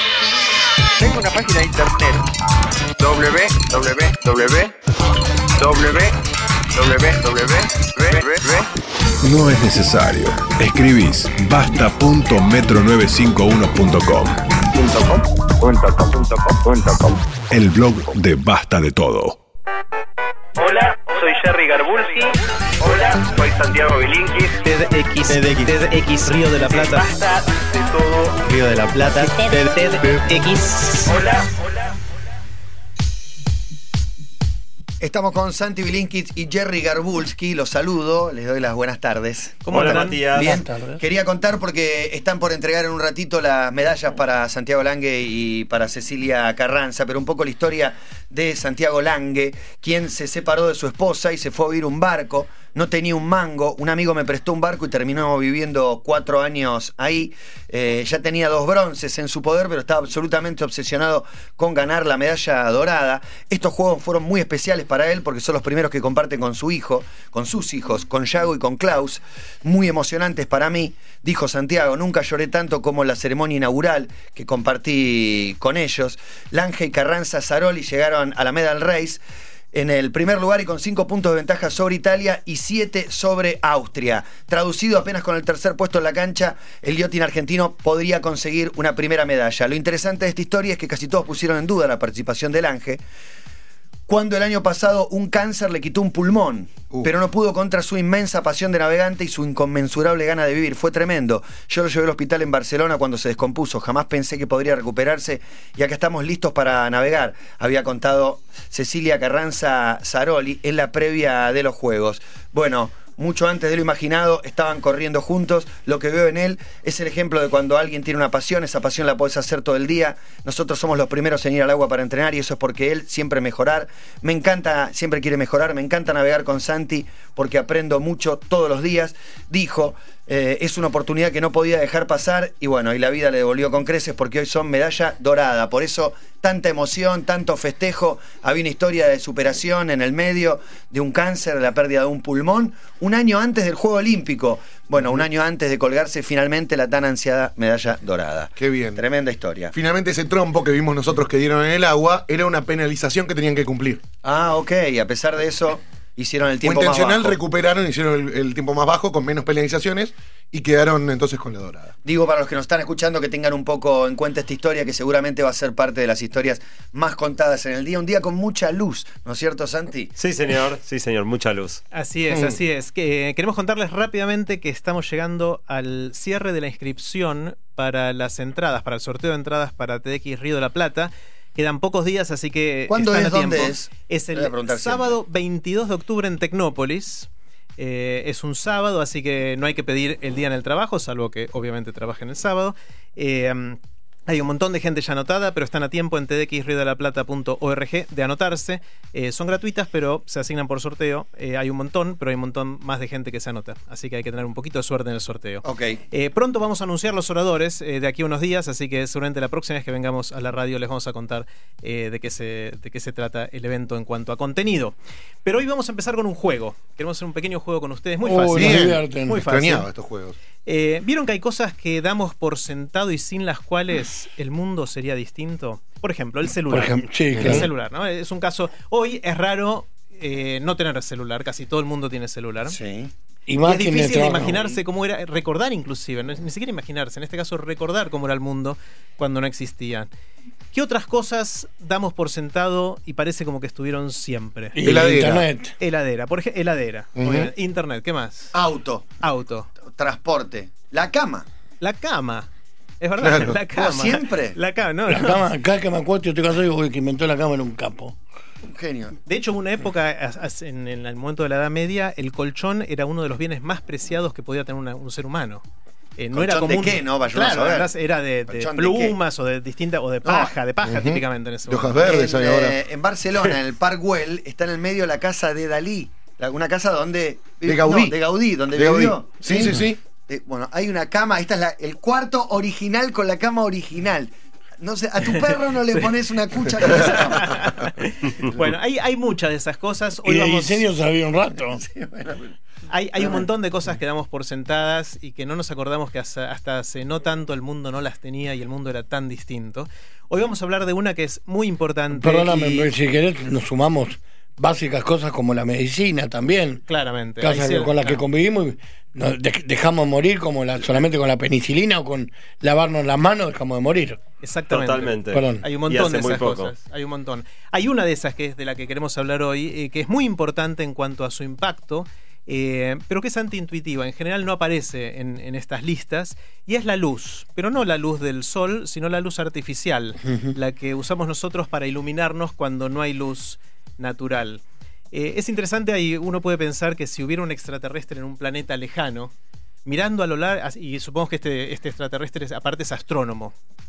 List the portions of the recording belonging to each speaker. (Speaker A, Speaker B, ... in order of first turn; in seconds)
Speaker A: 1.0-2.2, 3.0-4.7, 5.6-6.1, 6.7-8.7, 14.7-17.2, 22.8-23.3
Speaker B: 9.2-14.4, 17.5-19.4
Speaker C: 24.6-27.1, 28.4-31.1, 39.6-40.2, 171.9-219.9, 220.6-232.8, 233.6-240.1, 240.7-244.8, 245.8-248.6, 249.2-249.7, 251.8-252.5, 253.0-255.4, 259.2-265.6, 266.2-272.1, 285.3-286.1, 286.8-290.9, 292.9-302.9, 306.9-308.2, 314.4-339.3, 339.8-343.5
Speaker D: 35.0-79.2, 79.7-93.0, 94.1-149.7, 154.2-157.4, 162.0-170.1, 182.9-185.2, 205.6-206.0, 232.7-233.1, 248.5-249.1, 249.8-251.4, 253.8-254.6, 258.6-259.2, 266.3-267.9, 268.5-269.2, 270.2-270.5, 272.0-287.6, 291.8-292.6
Speaker E: 39.7-40.6, 170.2-171.8, 314.7-316.7
Speaker F: 40.3-41.0, 218.2-219.4, 226.7-227.7, 233.5-234.7, 244.8-245.7, 255.1-258.2, 290.2-291.8, 302.1-306.8, 307.4-314.2, 315.3-315.6, 330.2-330.5
Speaker G: 148.6-149.0, 149.7-154.0, 156.6-161.9, 172.3-172.6, 218.5-220.4, 227.3-227.7, 244.8-245.5, 247.2-247.5, 253.2-253.5, 270.8-272.8, 277.6-278.1, 278.7-280.0